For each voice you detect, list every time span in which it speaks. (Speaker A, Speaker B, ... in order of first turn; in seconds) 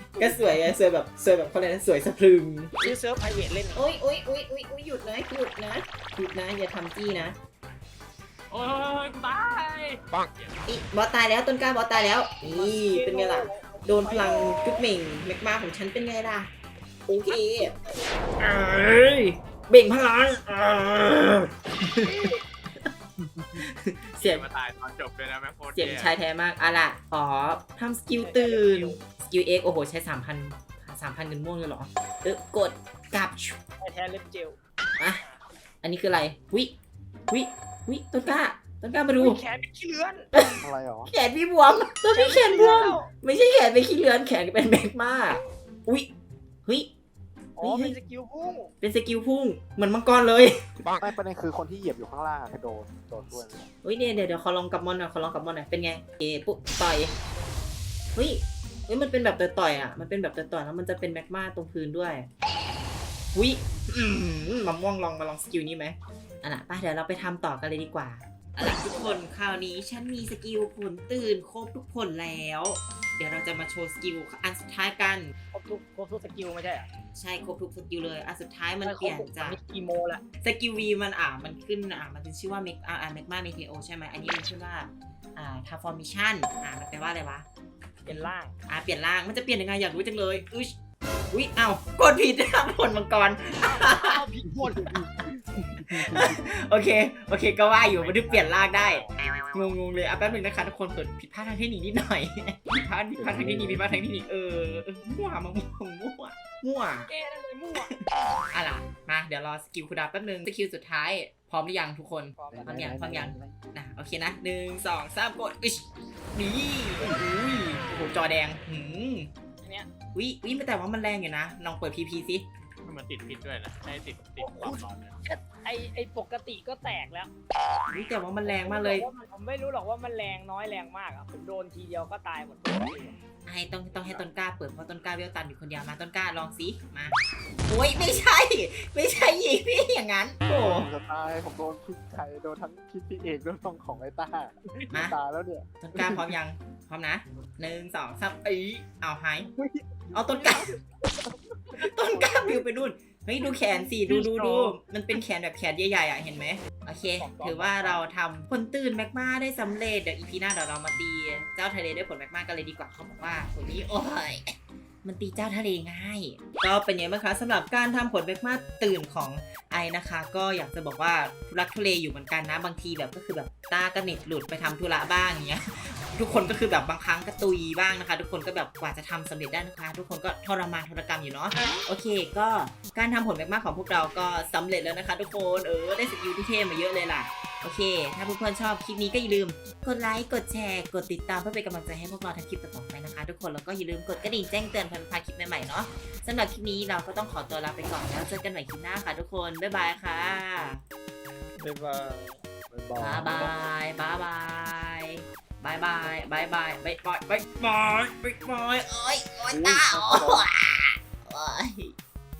Speaker A: 0.2-2.9, 3.7-7.3, 10.7-16.5, 17.1-17.7, 18.4-22.1, 23.6-24.4, 25.8-33.6, 35.8-36.7, 37.3-39.4, 40.3-46.1, 46.6-46.9, 47.6-48.0, 48.8-50.9, 53.8-57.1, 58.1-62.3, 63.3-75.3, 77.1-79.6, 80.4-87.5, 88.0-90.8, 91.3-94.2, 95.8-107.1, 107.8-119.3, 120.1-122.4, 127.9-129.1, 133.5-140.9, 144.9-145.2, 145.8-149.5, 150.1-150.8, 151.8-200.8, 203.0-211.9
Speaker B: 2.8-3.8, 12.5-14.8, 17.3-18.1, 22.0-22.4, 28.2-29.0, 33.8-35.4, 39.1-40.3, 42.1-43.1, 47.6-48.7, 68.8-69.2, 75.5-76.9, 78.8-80.2, 88.0-88.5, 93.6-95.0, 107.1-107.9, 112.3-112.9, 119.6-119.9, 124.4-127.3, 128.4-133.2, 157.1-158.0, 201.7-202.2
Speaker C: 8.5-10.6, 24.2-26.1, 97.6-99.5, 122.8-125.2, 133.9-134.2
Speaker D: 40.6-41.1, 50.9-53.7, 95.6-96.3, 103.2-104.0, 112.5-113.6, 140.5-146.3, 149.7-150.7, 154.1-154.6, 202.7-203.5, 209.5-210.3